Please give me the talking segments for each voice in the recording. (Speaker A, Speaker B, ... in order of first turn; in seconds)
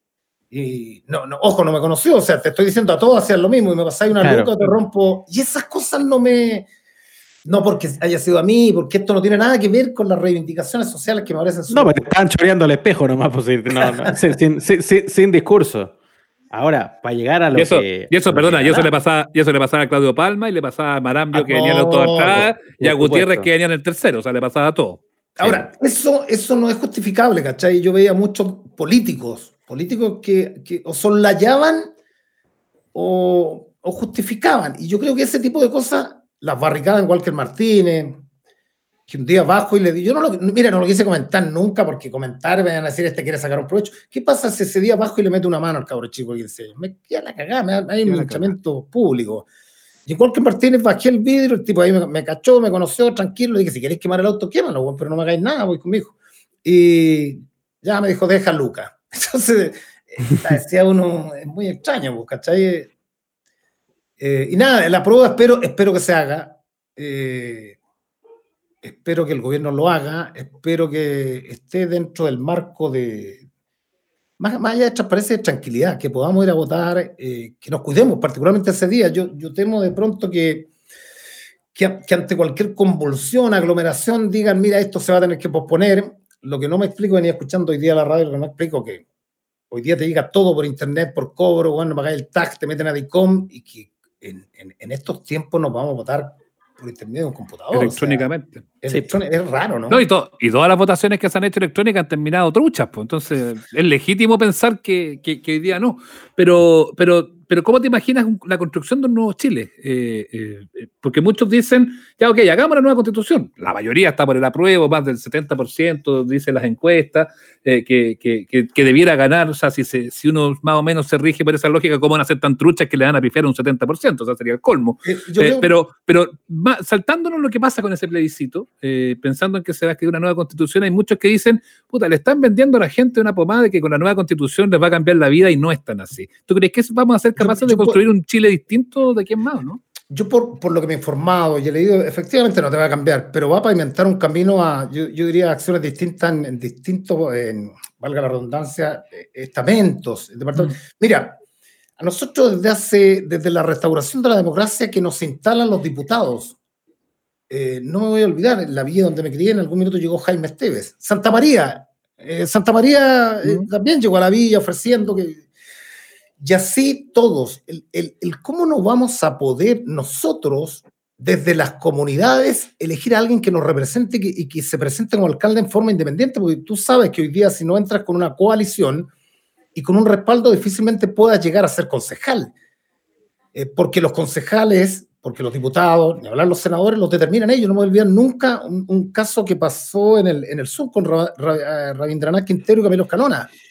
Speaker A: 0.5-6.7, 7.4-11.9, 21.3-22.5, 25.4-31.9, 32.9-38.2, 39.1-49.5, 50.1-62.9, 64.2-67.8, 68.8-73.5, 74.4-80.7, 81.7-89.0, 89.7-100.1, 125.0-125.7, 137.3-138.0, 140.1-151.4, 152.0-156.6, 157.5-165.4, 166.4-179.1, 179.7-182.5, 183.5-193.5
Speaker B: 4.2-4.7, 11.7-15.9, 16.5-18.9, 22.8-23.5, 25.4-25.6, 98.9-99.2
Speaker C: 17.5-25.0, 48.0-48.5, 97.7-98.6, 99.9-139.8